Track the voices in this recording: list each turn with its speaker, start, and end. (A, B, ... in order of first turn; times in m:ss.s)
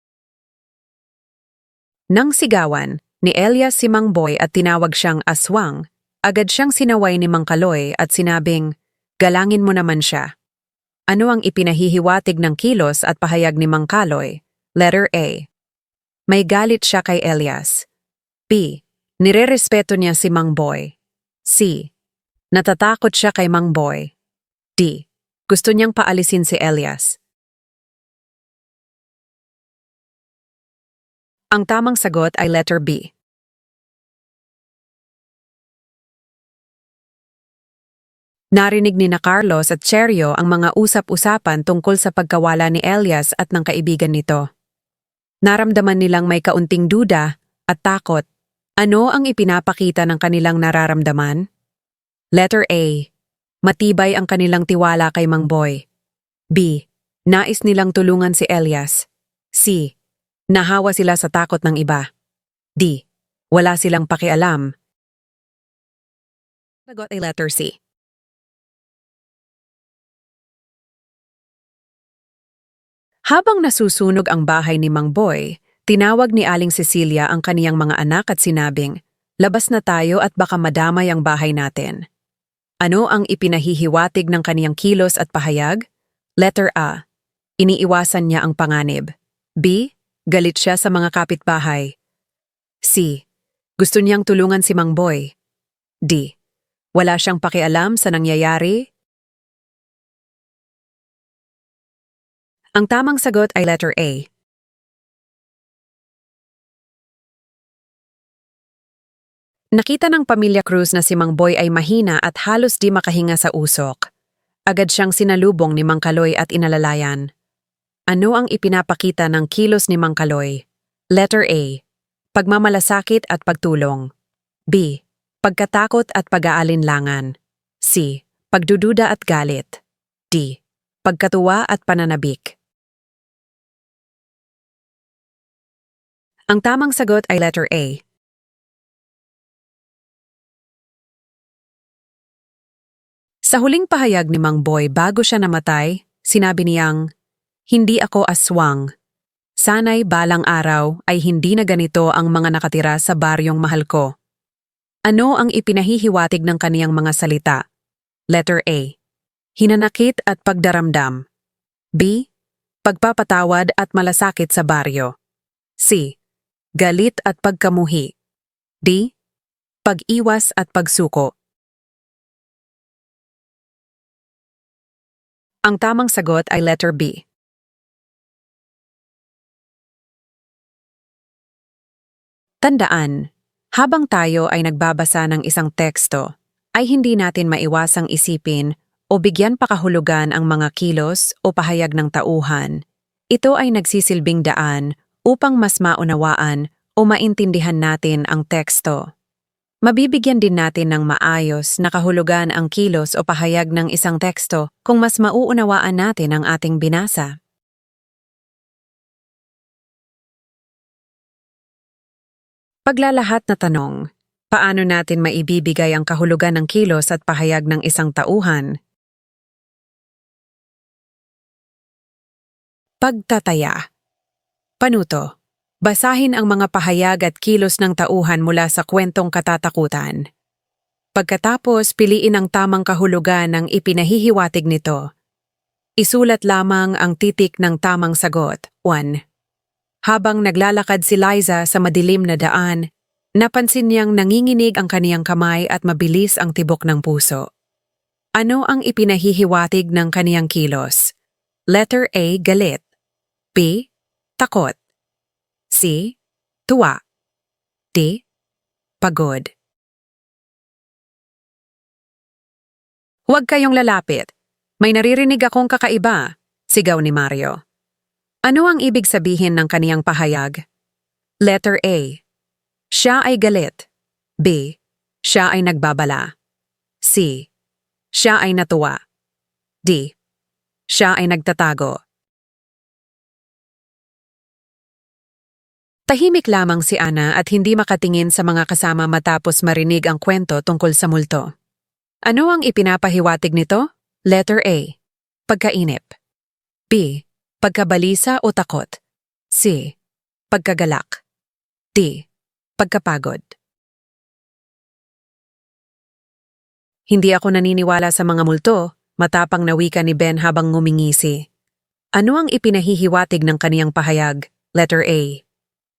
0:02.1-0:08.7 A
0:09.2-0:10.3 A
0:11.1-0:15.5 A
0:16.3-0:17.8 A
0:18.5-0:20.9 A
0:21.5-0:21.9 A
0:22.5-0:24.1 A
0:24.8-0:27.2 A
0:31.5-0:33.1 A
0:38.6-0:44.4 A
0:45.4-0:48.2 A
0:48.8-0:51.4 A
0:52.4-0:53.0 A
0:53.6-0:55.8 A
0:56.5-0:59.0 A
0:59.6-0:59.9 A
1:00.5-1:02.0 A
1:03.5-1:04.7 A
1:06.9-1:07.8 A
1:13.3-1:22.0 A
1:22.8-1:25.8 A
1:26.4-1:27.0 A
1:27.6-1:29.1 A
1:29.6-1:31.9 A
1:32.8-1:33.2 A
1:33.8-1:35.3 A
1:36.0-1:36.3 A
1:37.0-1:38.8 A
1:42.8-1:44.3 A
1:49.8-1:54.0 A
1:54.7-1:57.2 A
1:58.1-2:00.6 A
2:01.2-2:01.8 A
2:02.4-2:04.0 A
2:04.7-2:07.3 A
2:07.8-2:09.8 A
2:10.3-2:12.6 A
2:16.5-2:18.0 A
2:23.5-2:27.0 A
2:27.7-2:28.9 A
2:29.6-2:34.1 A
2:35.1-2:37.6 A
2:38.3-2:38.9 A
2:39.6-2:41.2 A
2:42.0-2:42.2 A
2:42.8-2:45.1 A
2:45.8-2:46.2 A
2:46.8-2:48.1 A
2:48.8-2:49.1 A
2:49.8-2:51.3 A
2:55.6-2:57.2 A
3:02.6-3:03.2 A
3:03.8-3:06.2 A
3:06.8-3:12.8 A
3:13.3-3:19.0 A
3:19.8-3:27.3 A
3:32.8-3:34.0 A
3:34.5-3:38.7 A
3:43.0-3:43.8 A
3:44.8-3:45.2 A
3:45.8-3:50.2 A
3:51.2-3:55.0 A
3:56.0-3:59.2 A
4:00.1-4:02.8 A
4:03.4-4:07.4 A
4:08.4-4:11.1 A
4:11.7-4:12.8 A
4:13.6-4:13.9 A
4:14.4-4:14.8 A
4:15.7-4:16.1 A
4:16.7-4:17.0 A
4:17.9-4:18.2 A
4:19.0-4:19.5 A
4:23.3-4:24.3 A
4:24.8-4:27.6 A
4:28.5-4:30.6 A
4:31.4-4:32.2 A
4:33.0-4:33.8 A
4:34.4-4:34.7 A
4:35.3-4:36.3 A
4:37.0-4:37.4 A
4:38.2-4:39.0 A
4:40.9-4:42.0 A
4:46.1-4:51.5 A
4:52.3-4:55.0 A
4:55.5-4:56.1 A
4:56.9-4:58.9 A
4:59.5-4:59.9 A
5:00.5-5:01.2 A
5:01.9-5:02.2 A
5:02.8-5:03.4 A
5:07.1-5:11.4 A
5:12.2-5:15.4 A